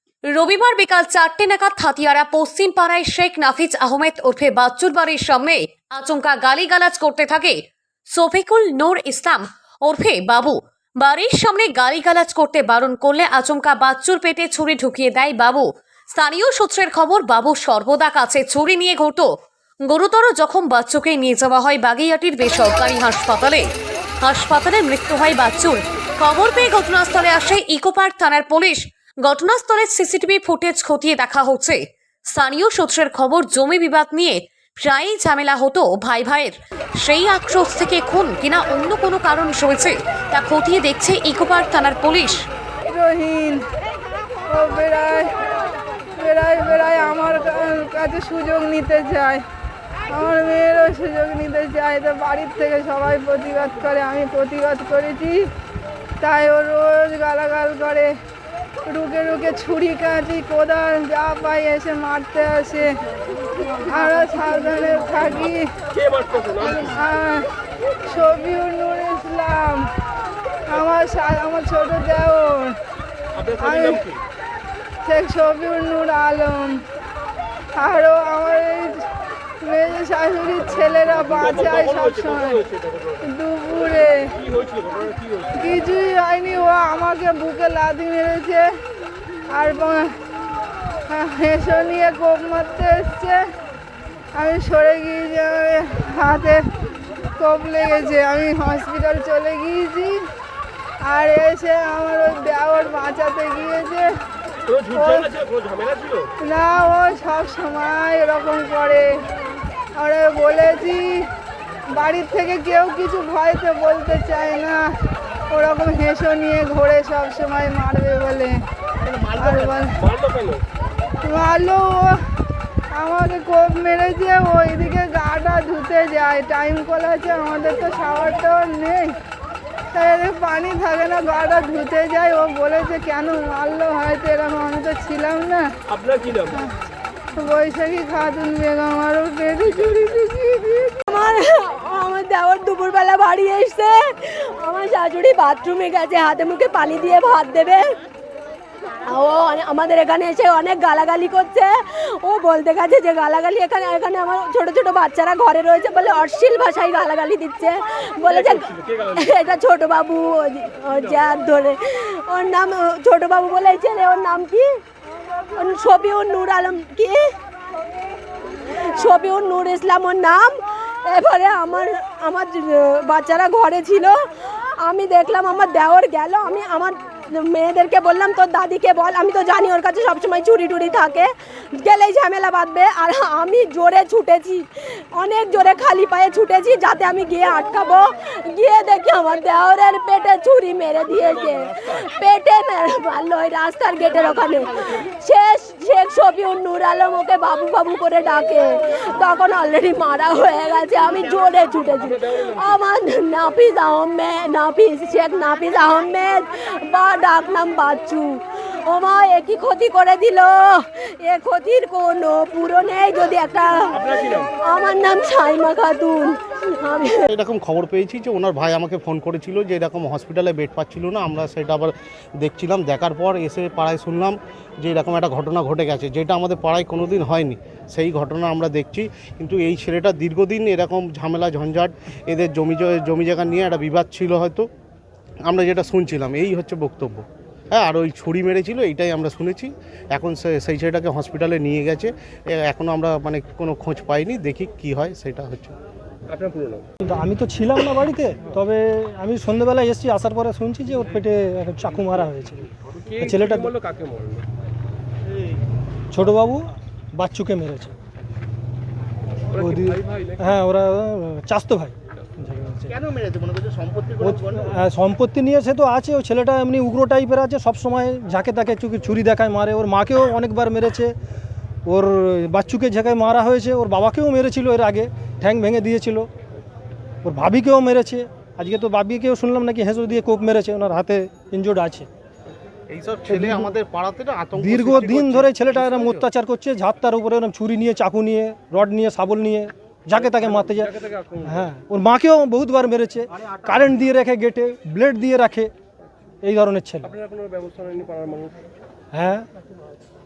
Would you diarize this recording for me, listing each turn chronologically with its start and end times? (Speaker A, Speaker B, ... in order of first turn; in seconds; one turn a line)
Speaker A: 0.3-7.6
Speaker A: 8.1-19.3
Speaker A: 19.9-23.6
Speaker A: 24.2-31.8
Speaker A: 32.3-42.4
Speaker B: 42.9-43.6
Speaker B: 44.5-45.3
Speaker B: 46.2-49.4
Speaker B: 50.1-55.5
Speaker B: 56.2-58.1
Speaker B: 58.9-62.9
Speaker B: 63.8-65.7
Speaker C: 65.9-66.8
Speaker B: 66.6-67.5
Speaker B: 68.0-69.9
Speaker B: 70.7-72.8
Speaker C: 73.3-74.2
Speaker B: 73.6-74.0
Speaker B: 75.0-76.8
Speaker B: 77.8-79.0
Speaker B: 79.6-82.6
Speaker C: 81.3-83.2
Speaker B: 83.2-84.3
Speaker C: 84.4-85.7
Speaker B: 85.5-88.7
Speaker B: 89.5-90.1
Speaker B: 91.1-93.4
Speaker B: 94.3-96.6
Speaker B: 97.4-100.2
Speaker B: 101.0-104.1
Speaker C: 104.7-106.3
Speaker B: 104.9-105.3
Speaker B: 106.4-109.1
Speaker B: 110.0-111.3
Speaker B: 111.9-114.8
Speaker B: 115.5-118.6
Speaker B: 119.2-120.0
Speaker C: 120.0-120.6
Speaker B: 121.2-122.2
Speaker B: 122.9-129.1
Speaker B: 129.9-135.7
Speaker C: 135.9-136.5
Speaker B: 137.4-141.1
Speaker D: 141.0-148.0
Speaker D: 149.0-164.8
Speaker C: 158.2-159.5
Speaker C: 160.9-161.2
Speaker D: 165.5-167.3
Speaker D: 168.7-217.3
Speaker C: 202.0-202.6
Speaker C: 213.9-214.5
Speaker E: 217.3-234.7
Speaker E: 235.5-245.8
Speaker C: 246.3-246.9
Speaker F: 247.0-253.7
Speaker C: 253.1-254.4
Speaker F: 256.1-257.9
Speaker F: 259.5-263.0
Speaker C: 259.6-260.5
Speaker D: 263.2-264.1
Speaker F: 264.2-271.1
Speaker F: 271.9-276.3
Speaker F: 277.2-282.1
Speaker E: 282.9-286.2
Speaker F: 283.3-283.7
Speaker F: 284.6-295.7
Speaker C: 290.6-291.6
Speaker F: 296.4-297.1
Speaker C: 297.1-298.6
Speaker F: 299.1-299.4